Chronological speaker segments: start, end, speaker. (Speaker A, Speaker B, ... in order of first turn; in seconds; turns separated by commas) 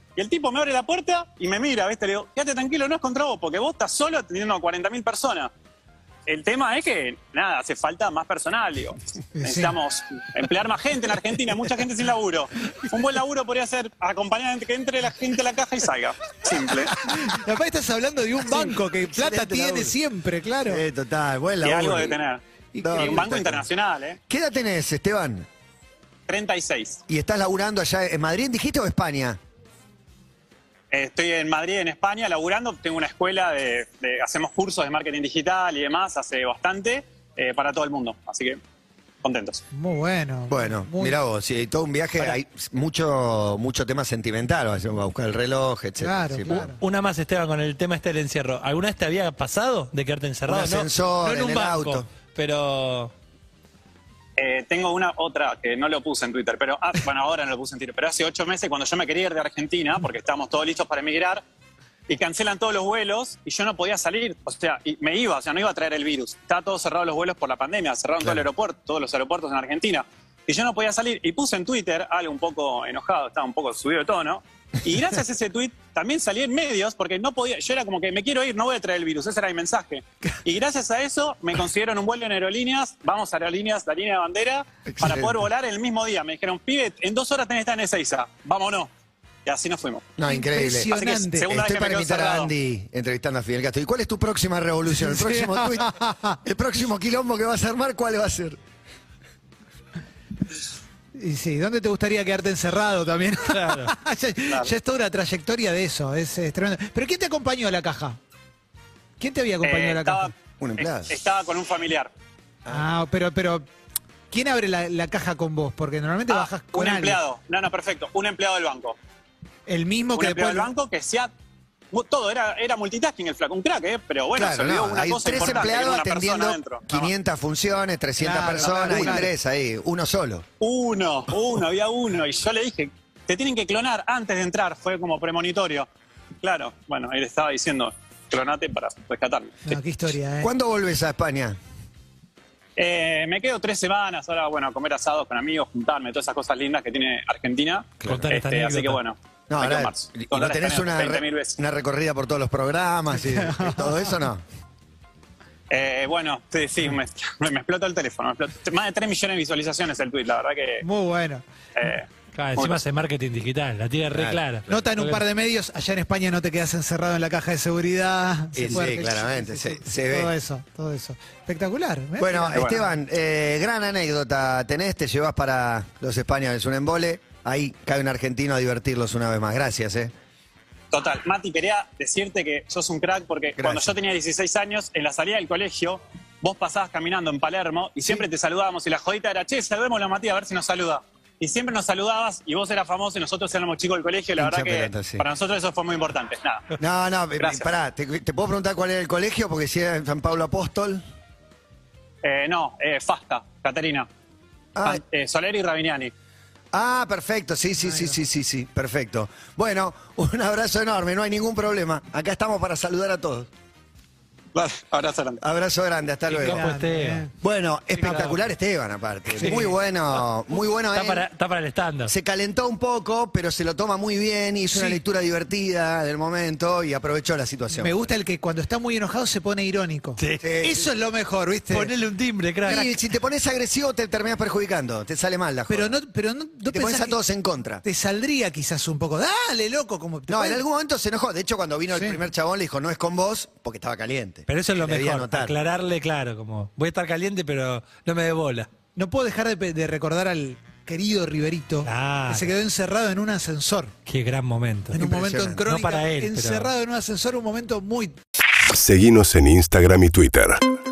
Speaker A: 0.2-5.5, Speaker A: 6.3-17.0, Speaker B: 17.0-20.8, Speaker C: 18.4-20.0, Speaker C: 20.6-22.2, Speaker A: 21.6-24.2, Speaker B: 22.8-23.2, Speaker C: 22.8-23.7, Speaker C: 24.3-25.5, Speaker A: 26.3-27.0, Speaker C: 27.1-29.4, Speaker A: 30.9-38.6, Speaker A: 39.2-39.6, Speaker B: 39.7-41.2, Speaker C: 40.5-46.7, Speaker B: 46.0-46.8, Speaker D: 46.5-53.1, Speaker C: 50.5-52.1, Speaker A: 54.4-61.4, Speaker A: 62.1-88.9, Speaker C: 84.9-85.4, Speaker A: 89.5-90.1, Speaker C: 90.2-90.9, Speaker B: 90.2-91.5, Speaker A: 90.9-92.5, Speaker C: 91.5-98.6, Speaker B: 94.9-96.4, Speaker B: 101.1-108.2, Speaker D: 103.5-103.9, Speaker B: 109.2-110.3, Speaker A: 109.6-112.1, Speaker C: 110.6-111.1, Speaker B: 112.7-113.7, Speaker B: 114.3-117.2, Speaker A: 116.3-119.0, Speaker B: 119.7-120.7, Speaker A: 120.2-121.3, Speaker A: 121.9-127.1, Speaker C: 124.3-130.4, Speaker B: 128.2-129.3, Speaker A: 128.6-129.3, Speaker A: 130.6-135.9, Speaker A: 136.4-139.8, Speaker B: 139.7-140.5, Speaker C: 140.4-141.6, Speaker A: 142.8-151.6, Speaker C: 148.0-148.3, Speaker D: 148.1-149.0, Speaker C: 149.5-154.4, Speaker B: 153.1-154.2, Speaker A: 155.7-160.8, Speaker B: 160.8-161.4, Speaker A: 161.8-162.8, Speaker D: 162.3-165.2, Speaker C: 164.1-164.4, Speaker B: 164.7-172.8, Speaker C: 168.5-170.3, Speaker C: 172.2-180.1, Speaker A: 172.5-172.8, Speaker A: 180.9-196.7, Speaker C: 183.6-184.0, Speaker C: 194.4-195.3, Speaker C: 196.8-201.0, Speaker A: 197.4-197.7, Speaker A: 202.2-204.1, Speaker C: 204.8-205.0, Speaker A: 204.8-206.1, Speaker C: 206.7-213.5, Speaker B: 207.8-208.2, Speaker A: 214.6-215.4, Speaker C: 215.4-216.7, Speaker D: 216.3-217.3, Speaker B: 216.4-217.3, Speaker C: 217.4-221.3, Speaker D: 217.9-218.4, Speaker B: 219.4-219.8, Speaker D: 220.9-222.1, Speaker C: 222.1-228.1, Speaker B: 224.7-225.0, Speaker B: 227.7-231.9, Speaker D: 230.2-230.5, Speaker C: 230.4-230.9, Speaker D: 231.7-232.9, Speaker C: 232.7-236.0, Speaker B: 235.7-237.2, Speaker C: 236.7-237.8, Speaker B: 237.8-240.6, Speaker C: 240.3-245.6, Speaker B: 241.9-242.2, Speaker D: 244.5-248.7, Speaker B: 248.9-253.9, Speaker D: 251.8-252.6, Speaker D: 254.1-255.0, Speaker B: 254.9-258.2, Speaker C: 255.0-255.7, Speaker D: 255.7-256.7, Speaker E: 258.7-260.6